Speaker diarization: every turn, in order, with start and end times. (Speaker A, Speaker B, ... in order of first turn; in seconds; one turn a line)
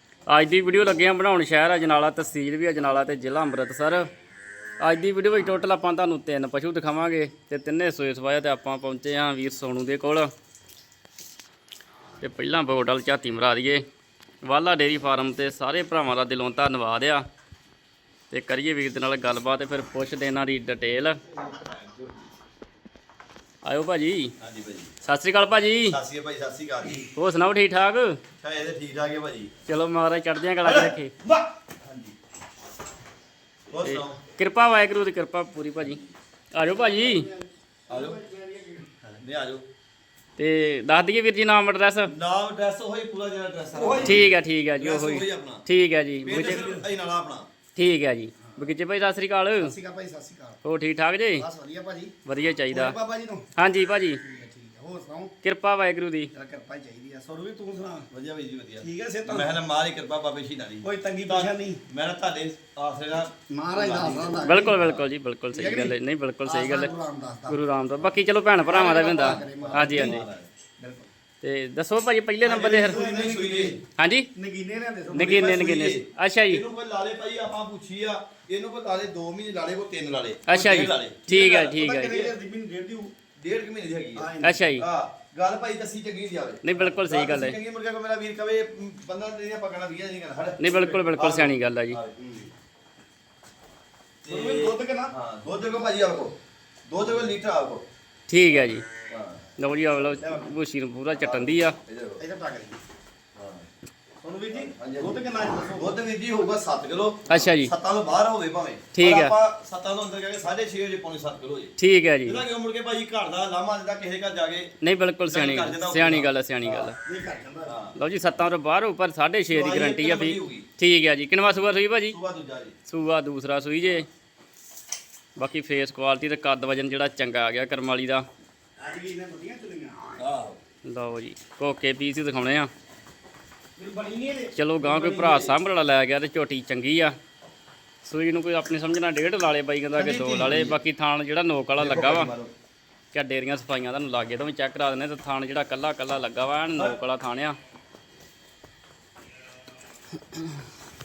Speaker A: 0.3-4.1
Speaker A: 4.8-10.3
Speaker A: 12.2-13.8
Speaker A: 14.4-17.2
Speaker A: 18.3-21.2
Speaker B: 21.3-22.2
Speaker A: 23.6-24.3
Speaker B: 24.4-24.9
Speaker A: 25.0-26.0
Speaker B: 25.9-27.1
Speaker A: 27.1-28.2
Speaker B: 28.4-29.5
Speaker A: 29.7-31.1
Speaker B: 30.6-32.1
Speaker B: 33.7-34.2
Speaker A: 33.8-36.0
Speaker B: 35.8-36.1
Speaker A: 36.5-37.3
Speaker C: 36.8-38.9
Speaker B: 37.9-38.2
Speaker B: 39.0-39.7
Speaker A: 40.4-42.1
Speaker B: 42.1-45.6
Speaker C: 43.8-44.2
Speaker A: 44.0-46.6
Speaker B: 46.3-47.5
Speaker C: 46.3-46.9
Speaker A: 47.8-49.8
Speaker C: 48.5-48.8
Speaker C: 49.6-50.6
Speaker A: 50.6-51.5
Speaker C: 51.4-52.1
Speaker A: 52.3-53.0
Speaker C: 52.7-53.5
Speaker A: 53.6-54.2
Speaker C: 54.2-55.3
Speaker A: 55.4-56.3
Speaker C: 56.3-58.1
Speaker B: 58.1-65.0
Speaker C: 58.8-59.5
Speaker C: 60.8-61.8
Speaker C: 63.5-64.8
Speaker A: 64.4-66.9
Speaker C: 65.5-67.6
Speaker A: 67.5-70.2
Speaker B: 68.7-70.5
Speaker C: 69.0-70.2
Speaker C: 70.8-71.1
Speaker A: 71.4-73.2
Speaker B: 72.4-73.8
Speaker C: 72.8-73.8
Speaker A: 74.0-74.3
Speaker C: 74.3-75.3
Speaker B: 75.1-82.3
Speaker A: 75.1-76.6
Speaker A: 80.5-82.2
Speaker C: 81.8-83.2
Speaker B: 83.4-92.2
Speaker C: 84.2-84.7
Speaker A: 84.4-84.8
Speaker A: 86.6-87.6
Speaker A: 90.6-92.0
Speaker C: 92.2-92.5
Speaker C: 94.3-95.1
Speaker B: 94.3-96.3
Speaker B: 96.9-97.8
Speaker A: 98.3-98.8
Speaker B: 99.1-99.4
Speaker A: 99.6-101.8
Speaker C: 100.2-100.5
Speaker B: 101.1-102.2
Speaker C: 102.2-102.8
Speaker B: 103.4-103.7
Speaker C: 104.2-106.0
Speaker B: 104.5-111.7
Speaker A: 107.3-107.7
Speaker A: 108.9-109.3
Speaker A: 111.8-112.4
Speaker B: 112.2-114.7
Speaker A: 114.8-117.0
Speaker B: 115.3-116.9
Speaker C: 117.0-117.8
Speaker B: 117.7-118.0
Speaker A: 118.0-122.2
Speaker B: 119.5-120.7
Speaker B: 122.1-122.8
Speaker A: 122.9-124.1
Speaker A: 125.4-128.3
Speaker C: 128.8-130.2
Speaker B: 130.2-130.6
Speaker A: 130.8-132.7
Speaker C: 133.8-135.2
Speaker A: 134.6-137.2
Speaker B: 135.0-135.6
Speaker A: 138.0-142.3
Speaker B: 139.9-140.8
Speaker B: 141.8-142.5
Speaker A: 143.1-147.6